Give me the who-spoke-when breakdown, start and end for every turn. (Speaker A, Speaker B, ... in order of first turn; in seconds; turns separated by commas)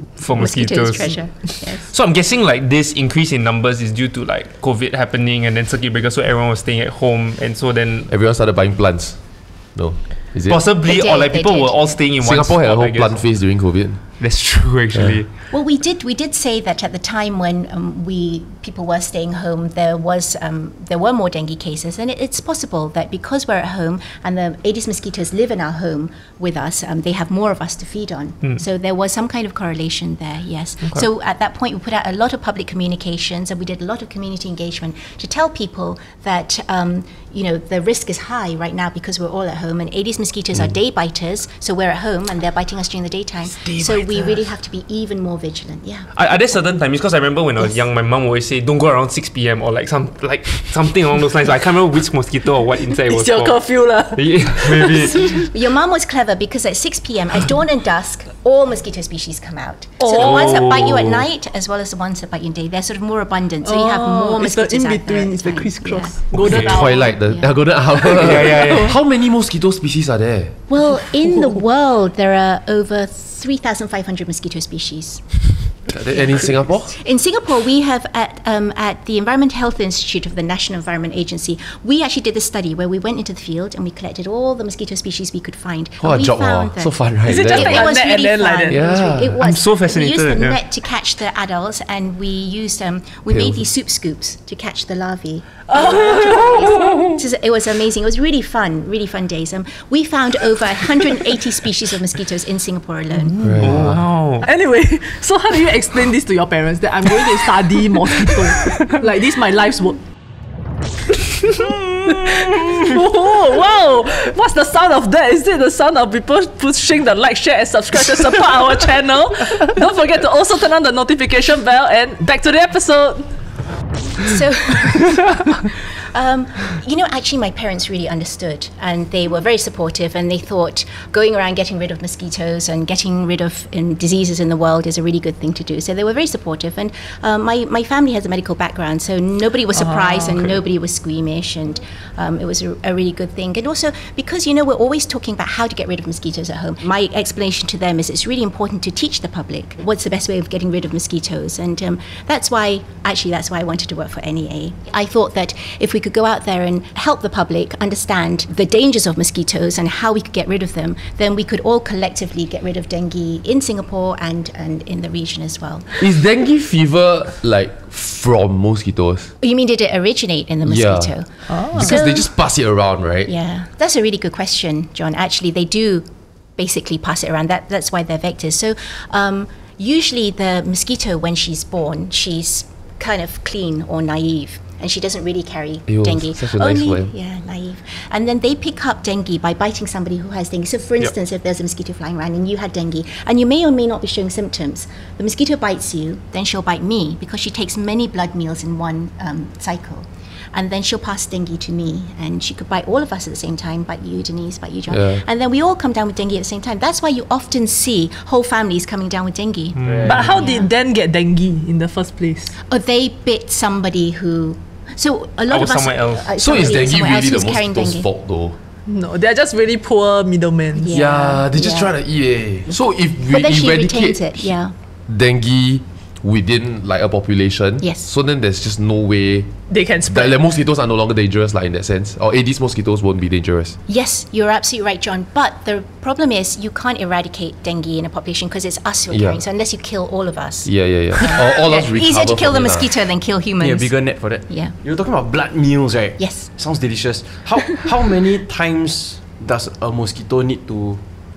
Speaker A: 0.2-8.1, Speaker B: 0.3-1.9, Speaker C: 8.1-10.6, Speaker A: 10.5-13.4, Speaker B: 10.8-12.0, Speaker C: 12.2-14.2, Speaker A: 14.2-15.3, Speaker C: 14.9-15.2, Speaker B: 15.5-46.5, Speaker A: 46.1-55.4, Speaker D: 53.1-55.4, Speaker B: 55.2-66.3, Speaker D: 60.0-60.3, Speaker A: 60.1-61.2, Speaker D: 63.6-67.2, Speaker A: 66.3-66.8, Speaker C: 66.4-70.5, Speaker B: 67.1-67.5, Speaker A: 68.1-68.9, Speaker D: 68.5-68.9, Speaker B: 70.7-103.4, Speaker D: 71.3-71.5, Speaker C: 75.9-77.0, Speaker C: 86.0-87.9, Speaker D: 87.2-89.0, Speaker C: 88.7-89.3, Speaker A: 89.3-90.6, Speaker C: 93.3-93.6, Speaker D: 95.7-97.0, Speaker C: 103.4-104.0, Speaker A: 103.6-104.5, Speaker D: 104.4-110.0, Speaker D: 112.0-123.3, Speaker B: 124.2-166.0, Speaker D: 139.8-140.2, Speaker C: 166.0-169.3, Speaker B: 169.4-172.3, Speaker C: 170.6-171.2, Speaker D: 171.5-171.9, Speaker C: 171.7-173.3, Speaker B: 173.2-210.7, Speaker C: 185.9-187.1, Speaker C: 204.9-205.2, Speaker A: 209.7-210.4, Speaker E: 209.8-210.5, Speaker D: 210.0-212.5, Speaker B: 212.7-218.1, Speaker A: 215.5-216.3, Speaker C: 216.4-218.6, Speaker D: 218.9-220.9, Speaker B: 220.8-221.9, Speaker C: 220.9-224.5, Speaker B: 223.3-224.7, Speaker C: 225.1-233.8, Speaker B: 227.8-228.1, Speaker D: 229.7-230.4, Speaker B: 233.9-244.7, Speaker C: 239.1-239.4, Speaker C: 240.6-242.9, Speaker E: 243.6-251.0, Speaker B: 246.2-246.5